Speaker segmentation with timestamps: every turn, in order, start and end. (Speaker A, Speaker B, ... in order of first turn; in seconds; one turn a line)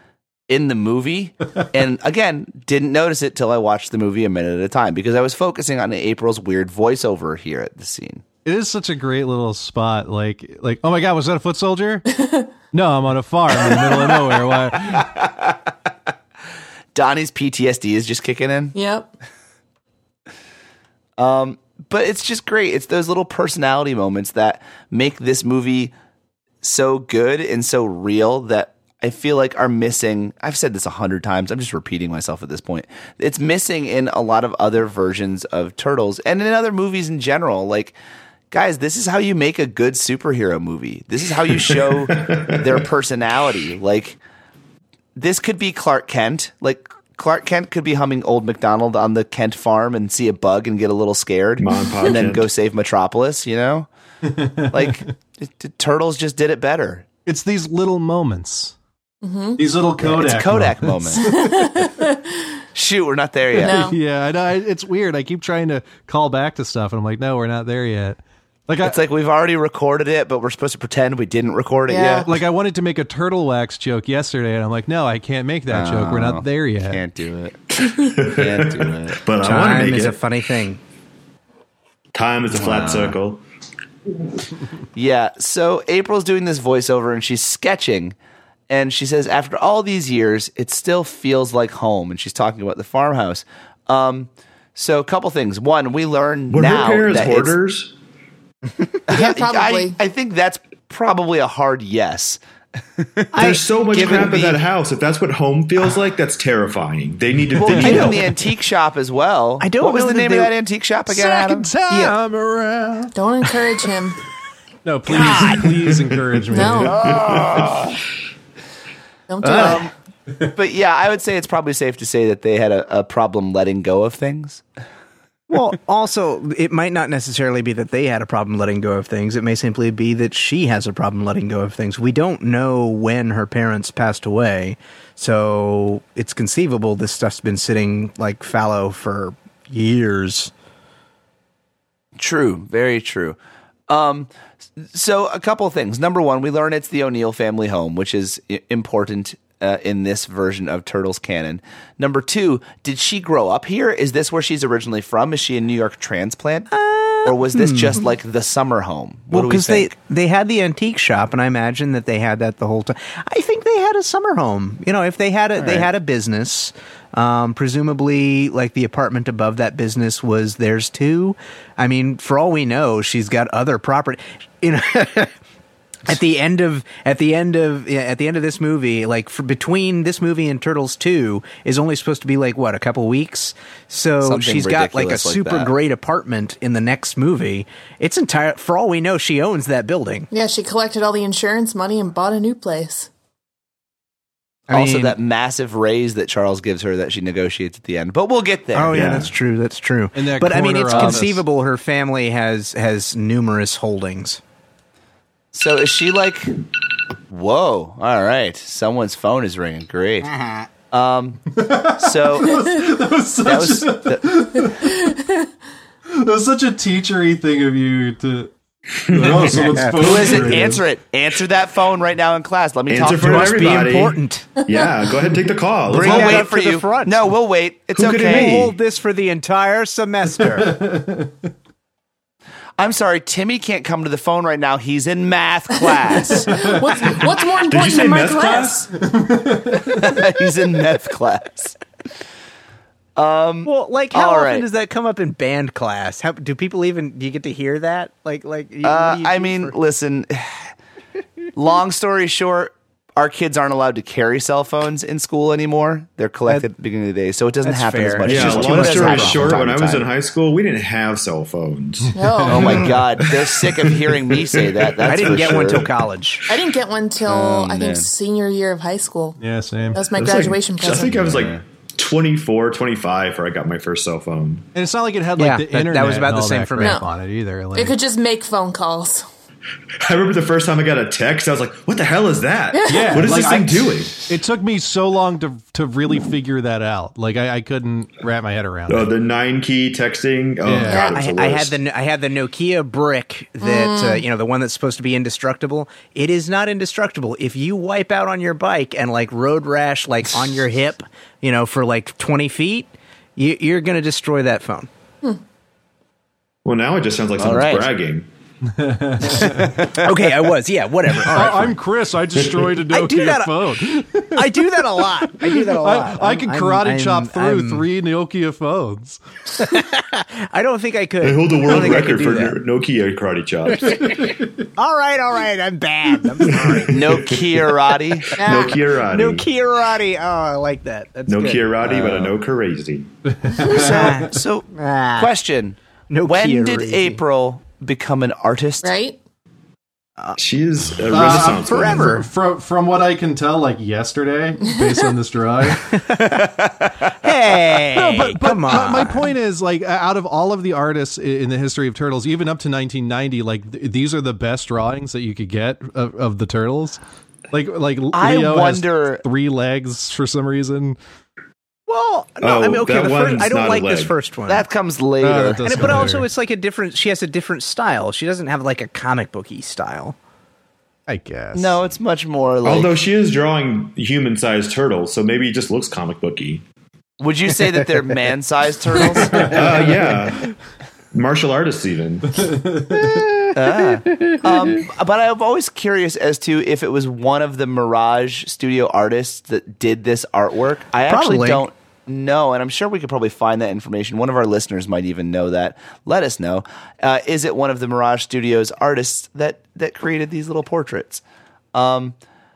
Speaker A: 0.5-8.2
Speaker B: 8.4-12.1
Speaker C: 12.1-12.5
Speaker B: 12.7-15.1
Speaker A: 13.6-14.0
Speaker A: 14.9-15.7
Speaker A: 16.9-18.8
Speaker C: 18.7-19.1
Speaker A: 21.2-25.9
Speaker A: 26.6-38.0
Speaker A: 38.5-44.2
Speaker D: 41.5-42.9
Speaker A: 45.2-53.9
Speaker D: 51.6-52.5
Speaker B: 54.2-55.0
Speaker A: 54.7-57.1
Speaker B: 57.3-58.8
Speaker C: 59.2-59.6
Speaker B: 59.6-61.9
Speaker A: 60.0-61.3
Speaker C: 61.2-62.6
Speaker A: 62.7-63.8
Speaker C: 63.6-64.0
Speaker B: 63.6-69.0
Speaker A: 68.8-72.3
Speaker C: 71.9-72.3
Speaker B: 72.3-77.0
Speaker A: 75.7-77.6
Speaker D: 77.8-80.2
Speaker A: 78.2-79.2
Speaker E: 79.4-80.8
Speaker D: 82.1-83.4
Speaker A: 82.5-83.2
Speaker A: 84.9-88.2
Speaker A: 88.7-97.6
Speaker D: 96.5-97.9
Speaker A: 99.1-102.4
Speaker C: 99.1-100.0
Speaker A: 103.0-104.5
Speaker E: 103.3-104.5
Speaker D: 103.3-108.3
Speaker A: 107.6-111.7
Speaker B: 107.7-108.2
Speaker E: 107.8-108.2
Speaker E: 109.6-110.5
Speaker B: 111.1-113.1
Speaker E: 111.9-112.2
Speaker C: 113.1-114.2
Speaker B: 114.8-117.1
Speaker E: 115.1-115.6
Speaker C: 116.5-117.0
Speaker D: 116.8-117.9
Speaker A: 117.0-117.9
Speaker C: 119.3-119.8
Speaker B: 119.5-119.8
Speaker A: 119.5-124.6
Speaker E: 125.5-140.5
Speaker A: 142.2-156.7
Speaker E: 156.7-158.0
Speaker A: 157.2-159.9
Speaker E: 159.3-175.3
Speaker A: 165.6-165.9
Speaker E: 176.1-190.3
Speaker A: 184.2-185.7
Speaker C: 190.3-193.1
Speaker E: 194.7-195.2
Speaker A: 194.7-199.3
Speaker E: 198.7-204.4
Speaker D: 198.9-199.3
Speaker B: 200.2-201.4
Speaker A: 200.9-201.2
Speaker A: 205.5-206.6
Speaker A: 207.3-210.3
Speaker E: 210.3-210.7
Speaker A: 210.9-212.8
Speaker B: 211.5-215.2
Speaker A: 213.4-214.4
Speaker C: 215.0-215.5
Speaker B: 216.1-218.5
Speaker D: 219.1-219.7
Speaker B: 219.1-220.8
Speaker E: 219.7-220.6
Speaker A: 220.0-223.8
Speaker D: 222.9-226.5
Speaker E: 223.1-224.5
Speaker C: 224.6-224.9
Speaker A: 225.9-228.7
Speaker E: 225.9-227.2
Speaker D: 227.9-228.7
Speaker E: 228.2-230.8
Speaker B: 230.4-231.5
Speaker A: 232.8-236.8
Speaker C: 235.9-238.9
Speaker B: 236.5-236.8
Speaker D: 237.6-238.9
Speaker B: 239.0-240.1
Speaker A: 239.9-241.8
Speaker A: 243.2-244.7
Speaker E: 243.7-249.8
Speaker A: 248.8-250.7
Speaker A: 251.6-260.1
Speaker E: 257.6-259.6
Speaker D: 258.2-262.8
Speaker C: 262.1-263.0
Speaker A: 262.5-265.9
Speaker D: 264.3-265.8
Speaker E: 265.0-266.4
Speaker C: 266.5-269.4
Speaker A: 267.3-268.1
Speaker B: 269.4-270.1
Speaker C: 269.9-271.2
Speaker D: 270.2-274.7
Speaker A: 271.1-271.6
Speaker B: 274.8-278.0
Speaker E: 275.4-277.0
Speaker C: 276.8-277.1
Speaker C: 277.7-279.3
Speaker D: 280.0-284.2
Speaker C: 282.7-283.2
Speaker B: 282.9-289.1
Speaker D: 288.9-291.8
Speaker B: 290.7-291.1
Speaker C: 290.9-291.2
Speaker E: 290.9-304.9
Speaker C: 293.6-294.2
Speaker D: 306.6-308.3
Speaker A: 307.4-307.9
Speaker B: 308.7-309.8
Speaker E: 309.2-311.8
Speaker A: 309.8-310.1
Speaker B: 311.2-319.2
Speaker E: 312.9-313.5
Speaker E: 314.3-317.9
Speaker E: 319.5-322.6
Speaker D: 321.2-324.3
Speaker E: 323.9-327.0
Speaker D: 326.5-327.6
Speaker A: 326.9-328.4
Speaker D: 328.3-329.5
Speaker E: 328.4-332.1
Speaker D: 331.3-333.1
Speaker B: 333.3-334.2
Speaker A: 333.6-338.9
Speaker E: 333.7-335.3
Speaker E: 336.1-337.2
Speaker C: 338.8-339.2
Speaker D: 340.4-342.1
Speaker B: 341.1-346.0
Speaker E: 341.2-342.3
Speaker C: 344.6-345.1
Speaker E: 345.9-349.3
Speaker B: 347.9-357.0
Speaker B: 357.5-361.0
Speaker A: 358.1-359.2
Speaker E: 361.9-364.6
Speaker D: 362.4-364.1
Speaker A: 364.5-366.0
Speaker B: 365.2-366.3
Speaker E: 365.6-370.2
Speaker B: 371.1-371.8
Speaker A: 371.5-373.0
Speaker D: 372.6-376.6
Speaker A: 377.2-379.6
Speaker D: 379.3-380.5
Speaker D: 381.1-382.5
Speaker B: 382.3-383.3
Speaker E: 382.9-383.5
Speaker A: 383.5-401.2
Speaker E: 384.1-384.5
Speaker E: 391.1-391.7
Speaker A: 401.7-402.2